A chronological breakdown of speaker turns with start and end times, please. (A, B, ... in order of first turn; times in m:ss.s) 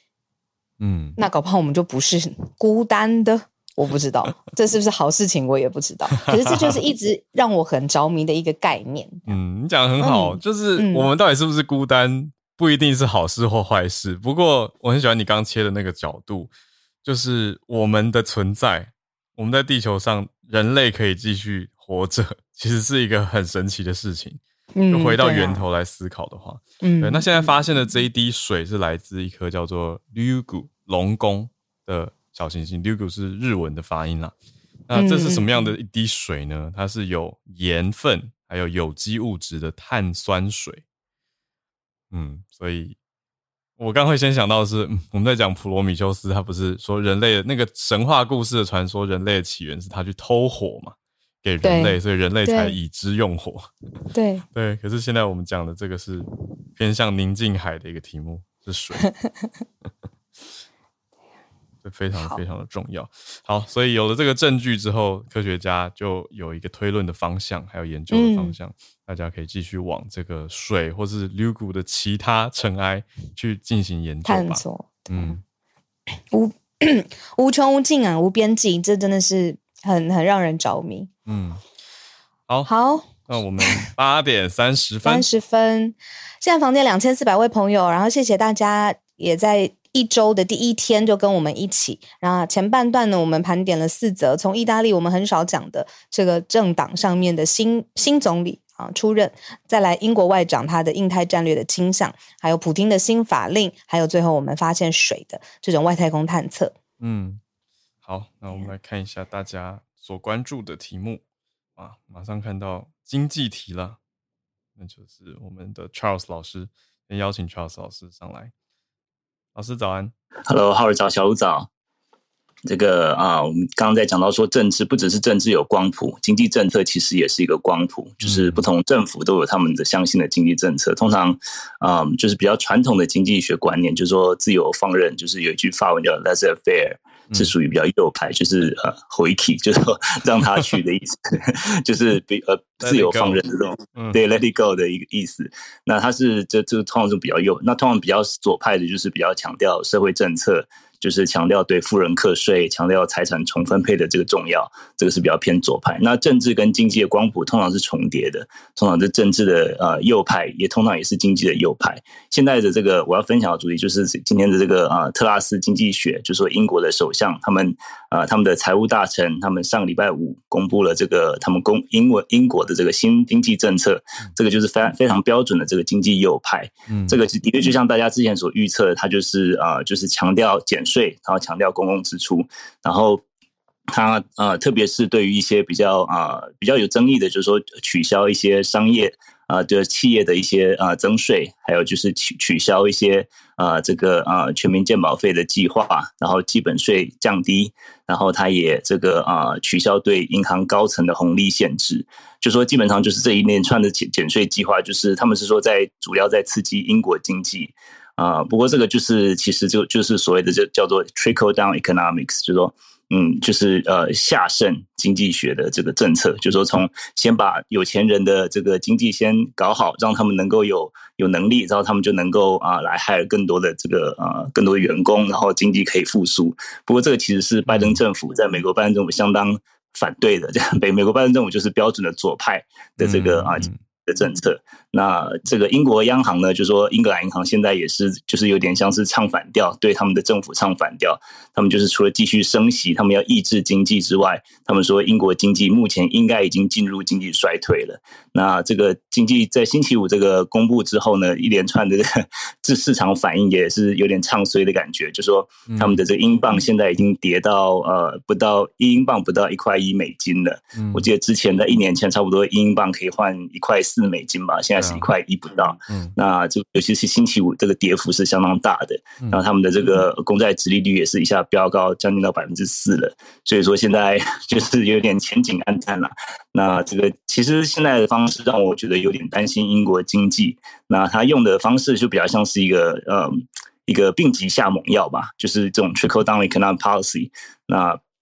0:00.8-0:01.2 A
0:01.2-0:09.4 B
0:06.3-0:06.8 A
0:09.3-0:16.5 A
0:10.0-0:11.1 B
0:17.0-0:34.3 A
0:24.8-0:25.6 B
0:26.8-0:27.5 B
0:34.9-0:40.8 A
0:34.9-0:35.7 B
0:42.1-0:43.0 A
0:43.8-0:53.7 A
0:51.6-0:52.8 B
0:54.1-0:54.4 B
0:54.5-0:59.1 A
1:01.8-1:15.4 A
1:02.1-1:02.4 B
1:08.1-1:08.6 B
1:14.2-1:15.4 B
1:16.3-1:21.1 B
1:21.2-1:21.6 A
1:22.5-1:25.3 A
1:22.7-1:23.9 B
1:25.0-1:46.7 B
1:47.0-1:47.4 A
1:48.0-1:51.2 A
1:51.8-1:54.0 A
1:54.8-1:58.5 A
1:59.5-2:00.1 A
2:00.5-2:01.7 C
2:02.6-3:03.2 C
2:08.2-2:08.6 A
2:22.8-2:23.4 A
2:23.9-2:24.2 A
2:56.9-2:57.2 A
3:03.9-4:48.0 C
3:47.7-3:48.0 A
3:53.0-3:53.8 A
4:15.7-4:16.0 A
4:20.8-4:21.1 A
4:24.8-4:25.0 A
4:25.9-4:26.1 A